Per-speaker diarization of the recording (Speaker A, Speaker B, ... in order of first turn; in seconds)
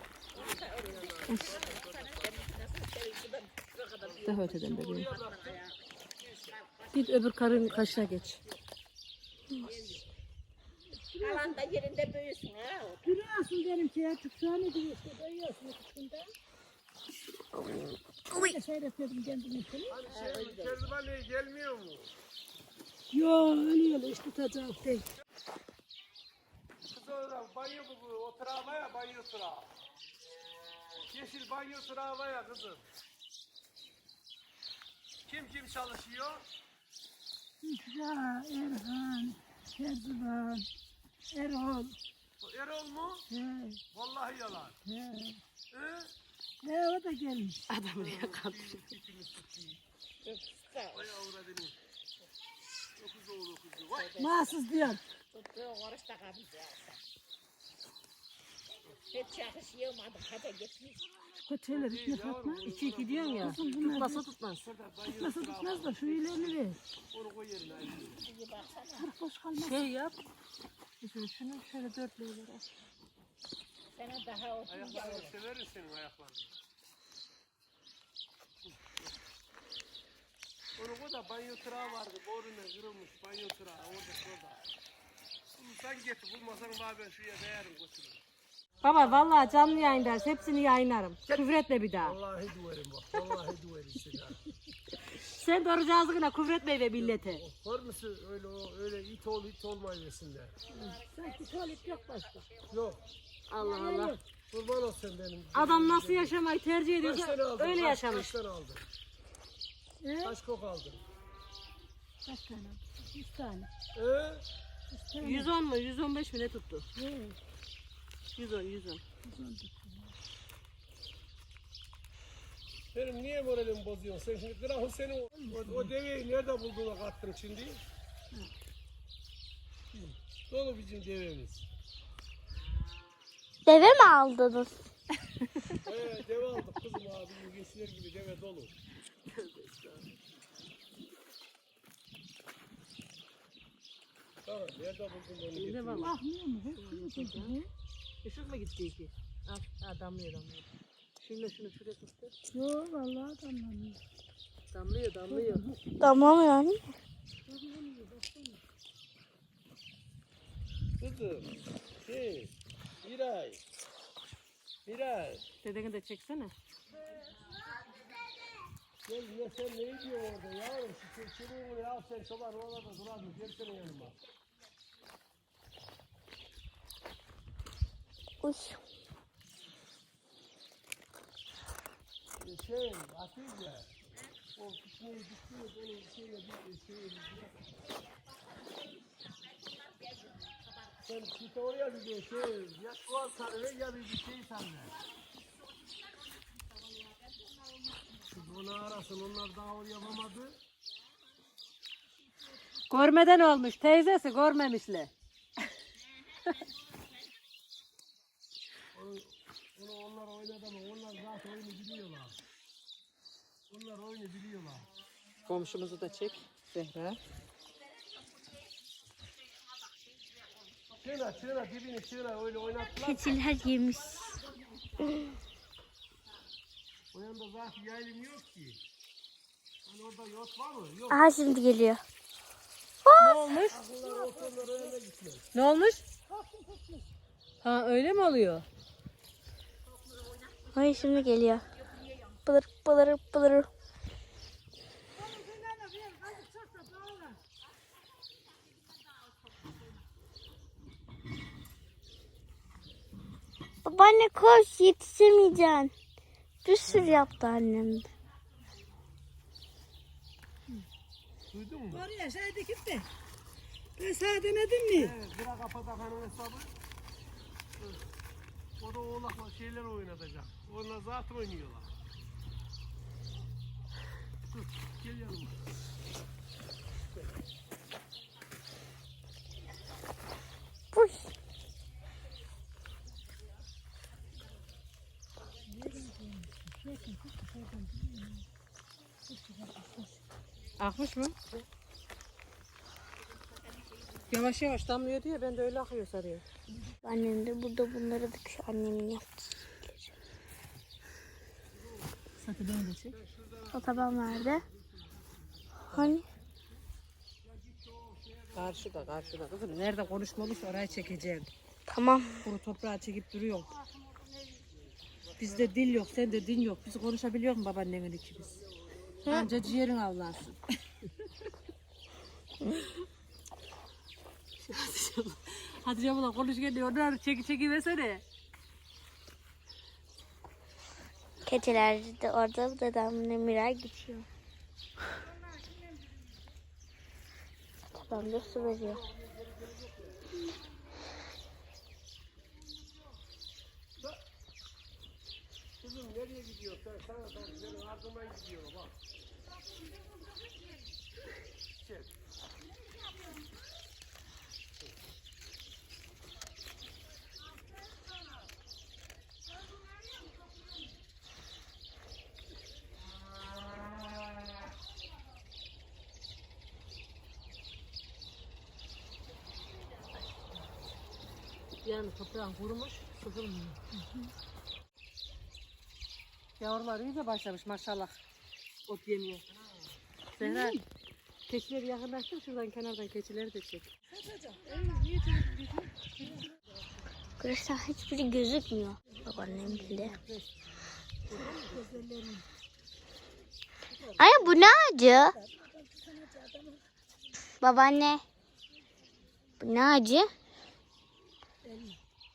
Speaker A: 0.3-2.5, 4.0-6.6, 19.9-22.1, 26.9-29.7, 31.1-32.9, 35.3-36.5, 42.4-43.3, 43.9-44.8, 45.7-46.1, 48.0-49.8, 50.9-51.8, 53.0-54.2, 61.7-68.3, 74.7-76.6, 78.7-79.1, 80.8-84.7, 85.6-88.2, 92.0-94.4, 97.0-100.6, 102.7-103.0, 104.5-106.4, 107.0-108.8, 110.2-111.0, 114.0-114.5, 122.9-127.8, 129.9-131.6, 135.8-138.7, 144.4-146.1, 161.0-161.5, 162.1-163.6, 164.9-165.4, 169.1-174.2, 182.4-183.9, 184.6-187.6, 191.1-194.9, 198.3-200.6, 208.9-212.4, 213.7-214.9, 221.0-223.3, 227.1-228.8, 229.9-231.2, 233.7-235.5, 256.9-257.2, 261.5-262.1, 264.9-266.7, 268.8-271.9, 274.5-275.6, 303.1-305.8, 307.4-310.7, 318.9-319.2, 338.0-340.2, 345.8-349.0, 351.8-352.1
Speaker B: 0.5-5.7, 9.7-10.0, 11.2-13.1, 20.1-20.8, 50.2-51.0, 54.0-54.5, 55.3-57.0, 59.1-61.0, 68.3-69.1, 74.0-75.3, 101.0-101.3, 101.9-102.6, 189.0-190.9
Speaker C: 4.2-5.1, 6.9-8.4, 47.7-48.9, 62.6-64.7, 69.5-70.2, 71.0-72.7, 88.8-92.2, 95.2-97.4, 103.5-104.2, 105.5-108.4, 115.2-116.9, 118.4-119.0, 139.3-140.2, 145.6-146.2, 146.7-147.6, 148.2-150.7, 151.2-152.3, 154.7-155.7, 165.6-166.5, 202.9-205.1, 215.5-217.2, 233.2-233.8, 235.5-236.0, 237.6-238.7, 290.8-291.4, 294.3-296.4, 302.4-303.1, 305.9-306.2, 308.6-311.5, 312.4-313.7, 315.4-318.6, 319.3-320.6, 324.6-328.2, 371.8-373.8, 376.6-378.2, 378.9-379.4, 380.4-380.8, 381.5-383.9, 384.6-386.5, 391.3-392.1, 393.9-394.5
Speaker D: 10.9-11.7, 13.0-16.3, 18.3-20.0, 23.1-25.1, 37.6-40.7, 41.3-42.0, 43.3-43.8, 44.9-45.4, 46.6-47.6, 54.2-55.0, 61.4-62.8, 63.4-64.2, 65.1-66.8, 69.0-69.8, 100.7-102.5, 103.6-104.2, 110.0-110.4, 112.2-113.7, 114.9-115.5, 117.0-117.4, 119.2-120.2, 125.3-125.9, 146.0-147.7, 152.5-154.0, 155.3-155.8, 157.5-158.6, 234.0-234.9, 236.3-237.1, 245.2-247.4, 261.9-263.1, 264.0-265.1, 285.7-288.5, 289.3-290.2, 313.8-314.7, 380.4-380.8, 384.1-384.8, 389.1-390.3, 391.3-392.4, 395.1-396.8, 401.6-402.0
Speaker E: 17.5-18.6, 133.7-134.8, 156.0-156.9, 178.4-178.8, 223.0-224.4, 231.1-232.0, 233.0-233.5, 240.7-241.7, 242.3-243.7, 253.8-255.9, 256.6-258.1, 280.9-281.3, 297.0-300.1, 303.7-304.6, 305.9-306.2, 311.9-312.5, 319.2-319.6, 322.6-322.9, 331.4-334.3, 338.1-339.0, 387.4-390.2, 394.2-395.4, 397.6-398.2, 399.6-400.3